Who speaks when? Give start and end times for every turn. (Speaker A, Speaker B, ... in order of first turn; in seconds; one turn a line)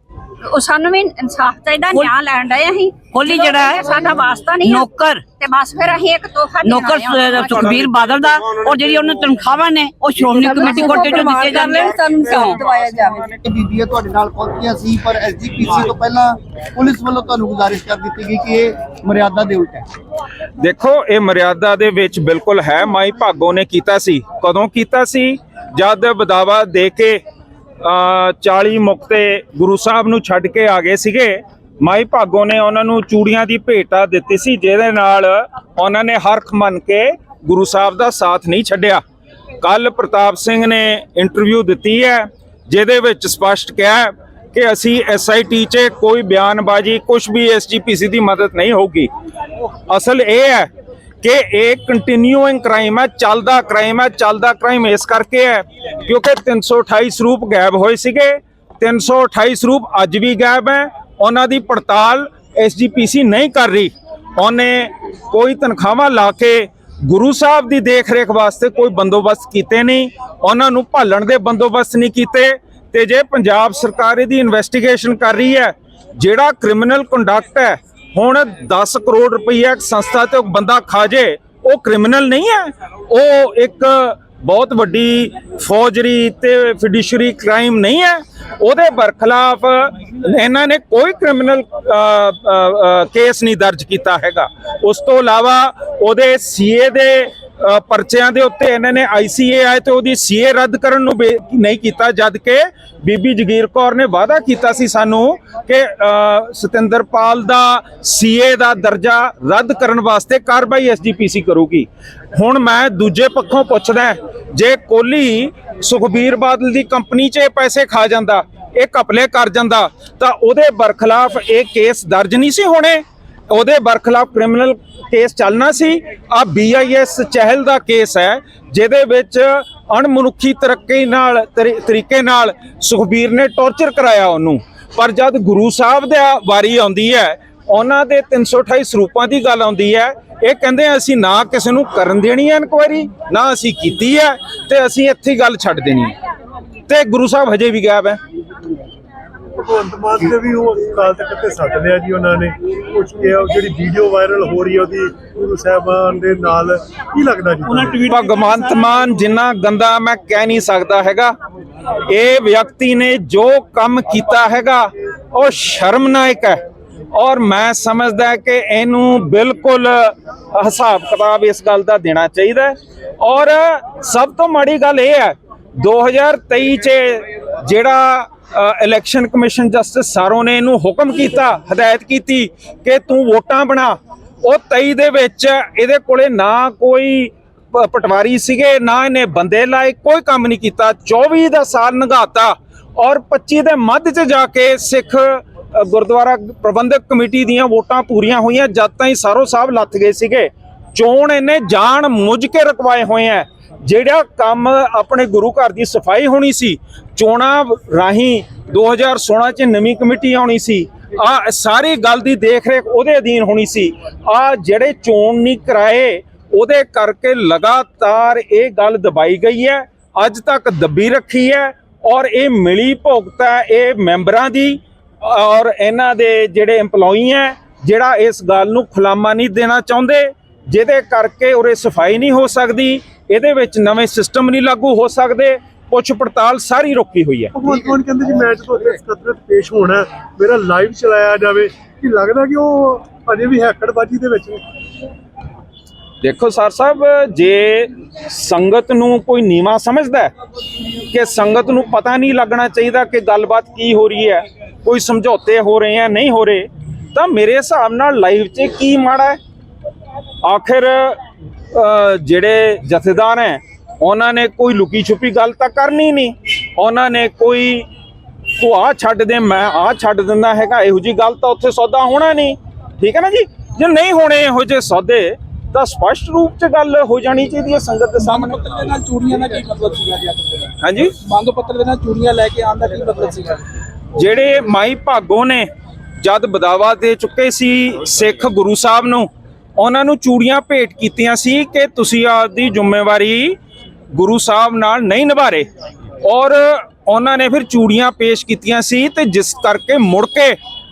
Speaker A: 0.4-7.8
Speaker B: 3.1-4.0
Speaker B: 4.6-5.2
Speaker B: 6.6-12.6
Speaker C: 7.8-8.1
Speaker C: 10.2-13.4
Speaker A: 10.4-13.0
Speaker D: 13.3-19.9
Speaker C: 20.6-27.2
Speaker C: 27.8-39.0
Speaker C: 39.6-49.1
Speaker C: 49.9-50.7
Speaker C: 51.2-146.1
Speaker C: 146.9-148.2
Speaker E: 149.6-158.0
Speaker C: 158.0-161.3
Speaker C: 162.0-166.6
Speaker C: 167.1-237.5
Speaker E: 237.5-244.6
Speaker D: 237.6-238.0
Speaker C: 246.2-250.3
Speaker C: 251.1-259.4
Speaker C: 260.4-261.2
Speaker C: 261.7-267.9
Speaker C: 268.6-278.7
Speaker F: 278.2-280.7
Speaker C: 280.8-281.1
Speaker F: 281.2-283.6
Speaker C: 284.1-285.7
Speaker C: 286.2-293.6
Speaker C: 294.1-295.6
Speaker C: 296.2-300.6